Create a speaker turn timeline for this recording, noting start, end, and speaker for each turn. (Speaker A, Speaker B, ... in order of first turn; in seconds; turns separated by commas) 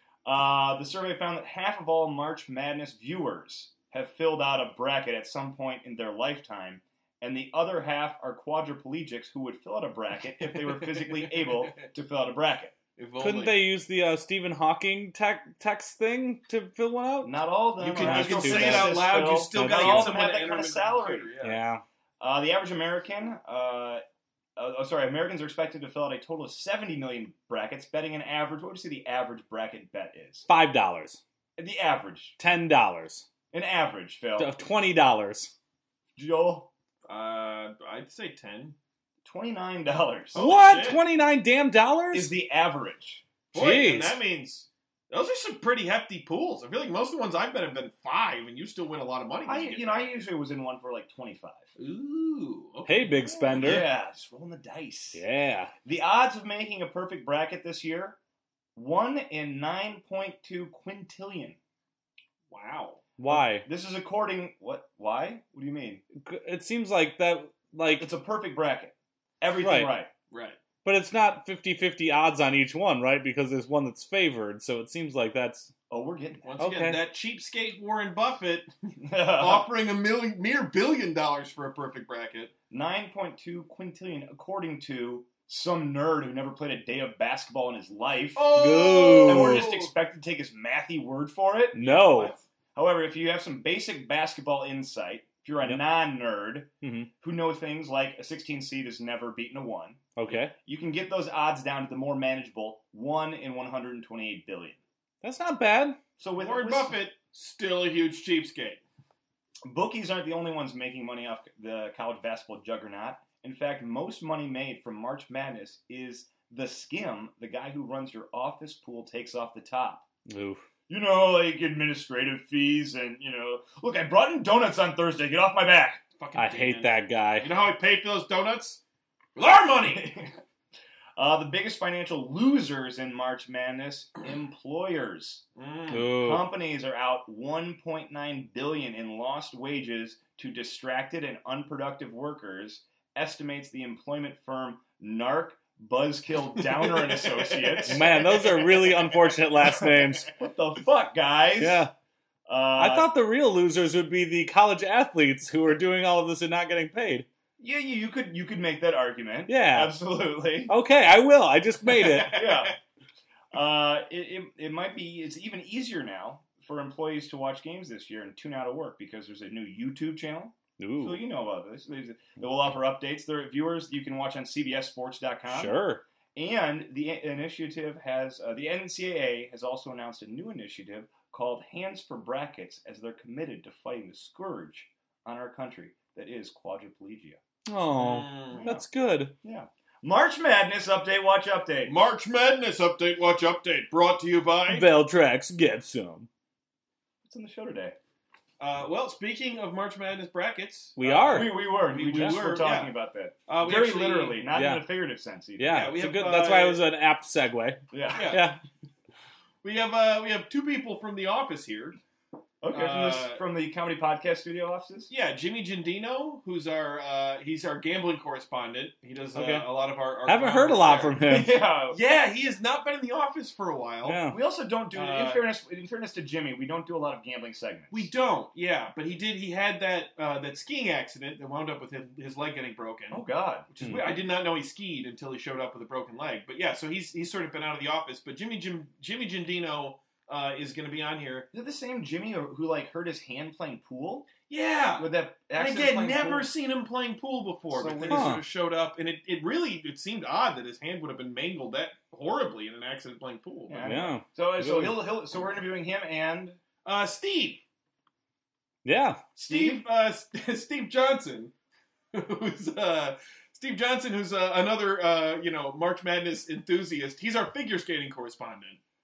Speaker A: 0.2-12.7, Speaker B: 10.4-11.9, Speaker B: 13.0-13.6, Speaker C: 13.2-17.3, Speaker A: 17.2-21.3, Speaker B: 17.8-21.6, Speaker C: 18.0-20.1, Speaker C: 21.4-21.8, Speaker A: 22.2-24.0, Speaker A: 24.6-30.5, Speaker C: 30.5-31.2, Speaker A: 31.6-32.4, Speaker C: 32.4-33.3, Speaker A: 33.5-34.5, Speaker C: 34.4-35.5, Speaker A: 36.2-36.7, Speaker B: 37.1-38.8, Speaker A: 39.2-40.5, Speaker B: 40.3-41.0, Speaker C: 40.4-42.3, Speaker A: 42.1-43.3, Speaker B: 43.5-50.1, Speaker C: 43.5-44.2, Speaker A: 49.5-51.7, Speaker B: 51.8-53.2, Speaker C: 52.9-53.9, Speaker A: 53.5-55.2, Speaker C: 55.1-55.7, Speaker A: 55.9-58.2, Speaker A: 58.8-61.6, Speaker B: 62.5-63.0, Speaker C: 63.2-63.7, Speaker A: 63.3-66.0, Speaker C: 66.2-68.1, Speaker A: 68.0-70.1, Speaker C: 69.6-70.0, Speaker B: 70.3-70.6, Speaker C: 70.8-75.7, Speaker A: 75.9-76.5, Speaker B: 76.4-82.5, Speaker C: 76.6-77.0, Speaker A: 79.0-79.7, Speaker A: 82.7-88.6, Speaker B: 88.4-89.9, Speaker C: 88.5-89.7, Speaker A: 89.2-91.9, Speaker C: 91.7-92.3, Speaker B: 91.8-92.4, Speaker A: 92.7-104.8, Speaker C: 96.8-97.1, Speaker C: 100.2-100.5, Speaker C: 105.2-106.0, Speaker A: 106.2-107.0, Speaker B: 106.4-108.8, Speaker A: 109.7-120.0, Speaker C: 120.3-120.6, Speaker A: 120.9-126.0, Speaker B: 126.2-128.8, Speaker C: 126.3-127.5, Speaker B: 129.4-130.2, Speaker A: 129.9-130.3, Speaker A: 131.2-135.4, Speaker B: 135.6-136.1, Speaker C: 135.9-136.4, Speaker A: 136.0-148.1, Speaker B: 146.6-149.1, Speaker C: 147.9-150.3, Speaker A: 150.3-151.9, Speaker C: 151.6-151.9, Speaker A: 152.5-153.1, Speaker C: 152.8-157.3, Speaker A: 157.6-160.7, Speaker C: 159.5-159.9, Speaker C: 160.7-162.4, Speaker B: 161.8-162.8, Speaker A: 162.2-162.8, Speaker A: 163.5-175.8, Speaker C: 170.8-171.2, Speaker C: 175.5-176.1, Speaker A: 176.3-187.4, Speaker C: 187.7-189.3, Speaker B: 188.0-188.7, Speaker A: 188.6-188.8, Speaker A: 189.4-192.0, Speaker B: 191.9-194.9, Speaker C: 194.7-196.3, Speaker A: 197.2-198.0, Speaker B: 198.6-202.9, Speaker C: 201.0-202.4, Speaker A: 201.3-205.9, Speaker B: 203.5-204.4, Speaker C: 204.5-204.9, Speaker C: 205.6-208.6, Speaker B: 205.7-206.8, Speaker A: 207.9-208.4, Speaker B: 208.1-208.5, Speaker B: 209.6-212.0, Speaker A: 212.6-215.1, Speaker B: 212.7-213.4, Speaker B: 215.1-221.2, Speaker C: 219.3-219.7, Speaker C: 220.3-221.6, Speaker A: 221.2-222.0, Speaker B: 221.9-224.2, Speaker C: 224.1-224.4, Speaker A: 224.3-228.1, Speaker B: 224.9-225.4, Speaker B: 227.9-241.5, Speaker A: 233.1-233.7, Speaker C: 233.8-234.1, Speaker A: 241.5-244.3, Speaker B: 244.5-253.8, Speaker A: 245.0-246.5, Speaker A: 247.7-248.4, Speaker C: 248.1-248.4, Speaker A: 253.7-256.6, Speaker C: 253.8-255.0, Speaker B: 256.9-257.6, Speaker C: 258.9-259.2, Speaker B: 259.4-261.5, Speaker A: 259.5-259.9, Speaker B: 262.1-268.8